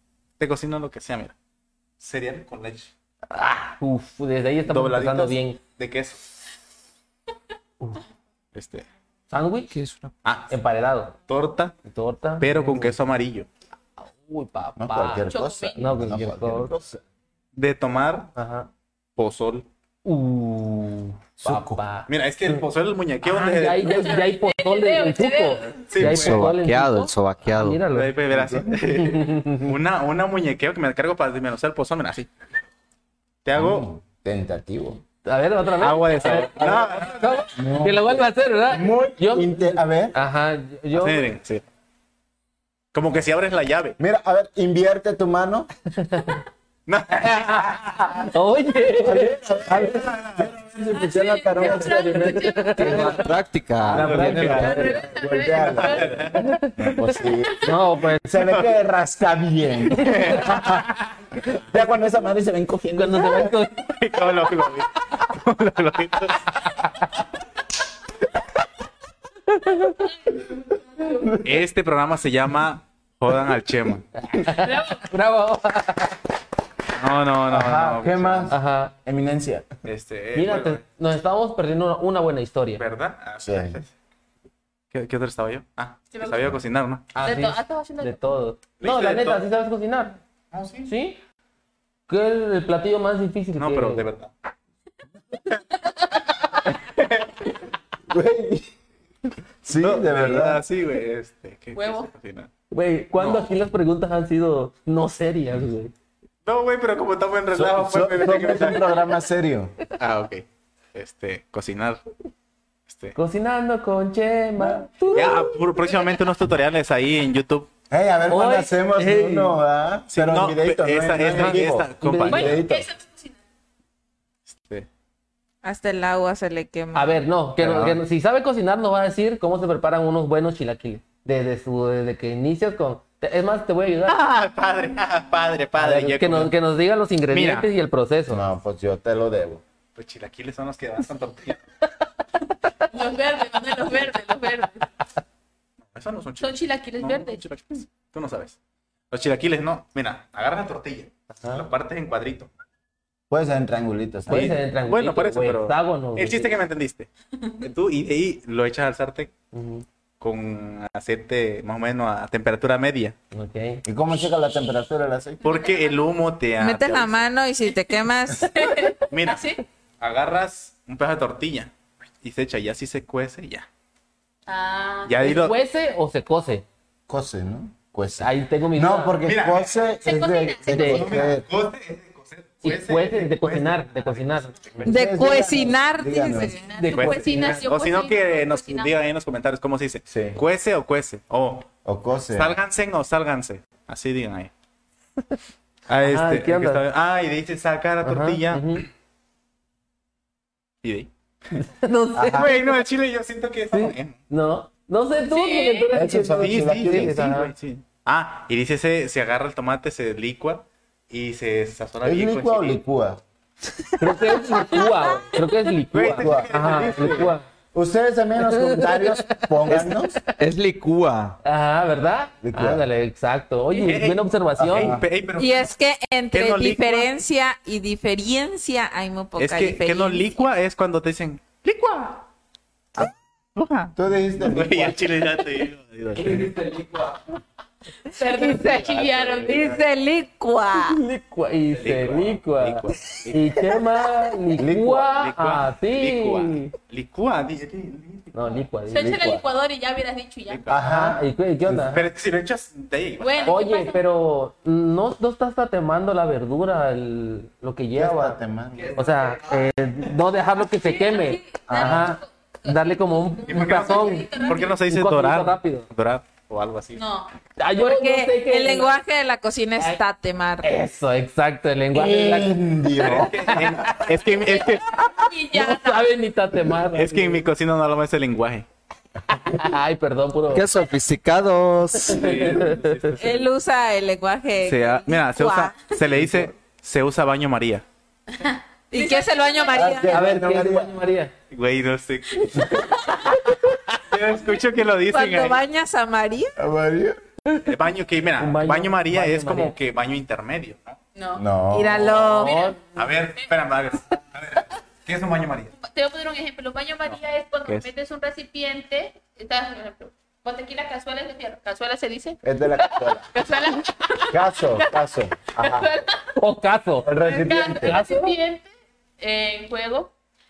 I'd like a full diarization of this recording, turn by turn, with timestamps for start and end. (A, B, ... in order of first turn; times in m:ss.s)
0:00.4-0:01.4 A
0:02.0-0:02.9 A
0:03.3-0:05.6 B
0:04.7-0:06.3 A
0:08.5-0:08.9 A
0:09.3-0:09.7 B
0:09.7-0:10.1 C
0:10.2-0:10.5 A
0:10.5-0:11.2 B
0:11.3-0:11.8 A
0:11.9-0:13.0 B
0:12.4-0:13.5 A
0:14.0-0:16.7 B
0:14.8-0:17.0 D
0:15.3-0:15.8 E
0:17.6-0:18.3 A
0:18.4-0:18.7 B
0:19.2-0:19.7 A
0:20.0-0:22.6 B
0:21.4-0:21.8 D
0:22.1-0:24.2 A
0:23.3-0:28.1 B
0:23.9-0:25.9 E
0:25.9-0:26.6 A
0:26.0-0:27.8 C
0:27.9-0:32.3 A
0:28.3-0:28.8 D
0:28.8-0:29.7 B
0:33.4-0:33.9 A
0:33.6-0:35.0 D
0:35.2-0:41.3 B
0:35.8-0:37.4 A
0:36.6-0:37.0 D
0:37.5-0:40.2 D
0:41.0-0:41.6 A
0:42.9-0:44.0 A
0:44.0-0:45.7 D
0:46.0-0:46.4 B
0:46.9-0:48.3 A
0:47.6-0:49.8 B
0:49.0-0:53.3 D
0:49.8-0:50.5 A
0:50.9-0:53.3 E
0:51.6-0:53.3 B
0:52.9-0:54.2 C
0:53.9-0:55.0 B
0:53.9-0:55.0 A
0:53.9-1:00.9 D
0:54.5-0:56.4 E
0:55.6-0:56.5 A
0:56.4-0:56.8 B
0:57.6-0:58.3 B
0:58.4-0:58.7 A
1:00.0-1:00.8 A
1:00.0-1:00.6 B
1:01.4-1:03.6 D
1:02.9-1:03.9 B
1:03.8-1:06.5 A
1:09.5-1:10.1 B
1:10.3-1:11.3 E
1:11.1-1:11.5 D
1:11.4-1:14.1 A
1:14.2-1:16.2 B
1:14.6-1:15.0 E
1:17.0-1:18.6 A
1:17.5-1:19.7 D
1:18.5-1:18.9 B
1:19.8-1:20.8 A
1:20.4-1:22.8 B
1:22.8-1:23.9 A
1:23.4-1:23.8 D
1:24.9-1:27.1 A
1:26.1-1:26.5 E
1:27.2-1:30.2 B
1:27.2-1:28.2 E
1:28.8-1:29.4 A
1:30.5-1:30.9 A
1:30.8-1:31.2 B
1:32.1-1:34.1 B
1:33.6-1:34.3 A
1:36.8-1:37.4 A
1:38.1-1:38.7 D
1:39.6-1:40.6 D
1:39.7-1:42.5 A
1:41.8-1:42.1 E
1:42.7-1:45.9 B
1:43.2-1:43.5 A
1:46.5-1:49.0 A
1:47.5-1:49.8 D
1:50.0-1:52.0 A
1:52.9-1:53.2 A
1:53.2-1:55.5 B
1:54.6-1:55.0 D
1:55.1-1:57.7 A
1:57.9-2:02.9 D
1:58.3-1:59.6 B
2:00.1-2:02.6 A
2:01.3-2:02.6 B
2:02.3-2:03.4 E
2:04.5-2:04.9 A
2:05.6-2:07.2 F
2:06.9-2:14.2 B
2:07.6-2:08.0 D
2:14.1-2:16.5 A
2:15.8-2:18.4 B
2:17.3-2:17.7 A
2:18.3-2:19.6 D
2:20.0-2:21.6 A
2:22.9-2:24.9 E
2:25.9-2:28.6 A
2:26.4-2:27.4 E
2:29.1-2:32.5 A
2:31.4-2:31.6 B
2:33.3-2:34.6 D
2:34.3-2:36.5 B
2:34.3-2:39.3 A
2:39.5-2:39.8 B
2:40.2-2:43.2 A
2:43.3-2:43.8 B
2:43.8-2:45.4 D
2:45.4-2:46.0 E
2:45.4-2:47.2 A
2:46.6-2:48.5 F
2:48.4-2:49.6 E
2:49.1-2:49.5 A
2:50.0-2:53.7 A
2:54.5-2:55.2 E
2:55.1-2:55.6 A
2:55.2-2:56.6 B
2:57.1-3:01.5 D
2:58.2-2:59.2 B
2:59.2-2:59.8 A
3:00.0-3:01.2 E
3:00.7-3:01.1 B
3:00.7-3:04.9 A
3:02.6-3:04.9 B
3:04.8-3:06.6 D
3:04.9-3:06.7 F
3:06.3-3:08.9 E
3:06.7-3:07.6 B
3:06.9-3:11.7 A
3:10.1-3:10.4 D
3:11.8-3:12.6 D
3:12.3-3:14.5 A
3:15.9-3:18.8 A
3:16.0-3:16.8 B
3:18.0-3:18.9 B
3:20.8-3:21.1 A
3:21.6-3:22.7 B
3:22.2-3:22.6 D
3:22.3-3:24.2 A
3:23.7-3:27.5 B
3:25.3-3:25.9 E
3:25.9-3:27.3 D
3:26.3-3:32.8 A
3:32.0-3:33.2 D
3:34.0-3:37.4 B
3:35.9-3:37.3 A
3:36.0-3:40.2 D
3:38.5-3:40.0 B
3:40.4-3:41.4 C
3:41.4-3:45.0 B
3:42.4-3:42.9 D
3:43.7-3:45.7 A
3:44.6-3:45.0 D
3:45.4-3:50.4 F
3:46.3-3:47.1 A
3:49.4-3:52.2 A
3:53.6-3:56.5 A
3:54.0-3:55.1 D
3:56.2-3:57.2 B
3:58.1-3:59.8 E
3:58.6-3:59.8 A
3:59.5-4:01.0 F
4:00.8-4:06.7 B
4:01.8-4:03.7 A
4:04.6-4:05.1 D
4:05.2-4:08.6 A
4:08.3-4:09.3 B
4:08.9-4:10.6 E
4:09.0-4:09.4 D
4:10.5-4:10.8 A
4:10.7-4:11.9 D
4:10.8-4:12.1 B
4:11.9-4:13.6 A
4:13.2-4:14.0 E
4:13.5-4:18.4 B
4:18.0-4:19.4 D
4:18.9-4:25.9 B
4:20.8-4:24.8 E
4:21.7-4:22.2 D
4:23.5-4:27.0 A
4:27.0-4:27.3 E
4:27.6-4:29.0 B
4:27.8-4:30.7 F
4:30.6-4:32.6 B
4:31.9-4:33.5 D
4:33.0-4:35.0 A
4:33.1-4:34.0 B
4:34.2-4:36.1 E
4:35.5-4:37.5 B
4:36.9-4:38.7 A
4:39.3-4:40.6 B
4:40.5-4:42.2 C
4:42.0-4:43.2 B
4:42.1-4:43.5 A
4:43.2-4:45.9 F
4:44.6-4:47.8 A
4:46.2-4:46.5 D
4:48.3-4:50.0 E
4:48.9-4:50.1 F
4:49.7-4:51.0 D
4:50.0-4:51.3 B
4:51.5-4:52.8 A
4:53.0-4:53.7 B
4:54.1-4:55.6 A
4:55.1-4:56.5 F
4:56.6-4:57.2 D
4:57.6-5:01.0 A
4:58.4-4:59.7 B
5:01.2-5:01.5 E
5:01.4-5:02.3 D
5:01.7-5:02.6 F
5:02.1-5:02.9 E
5:02.4-5:02.8 B
5:03.0-5:05.7 A
5:05.8-5:15.0 E
5:07.1-5:07.9 A
5:12.4-5:13.3 D
5:14.3-5:15.9 D
5:15.6-5:16.4 E
5:16.4-5:17.1 B
5:17.0-5:18.0 D
5:17.2-5:20.1 E
5:17.7-5:18.4 B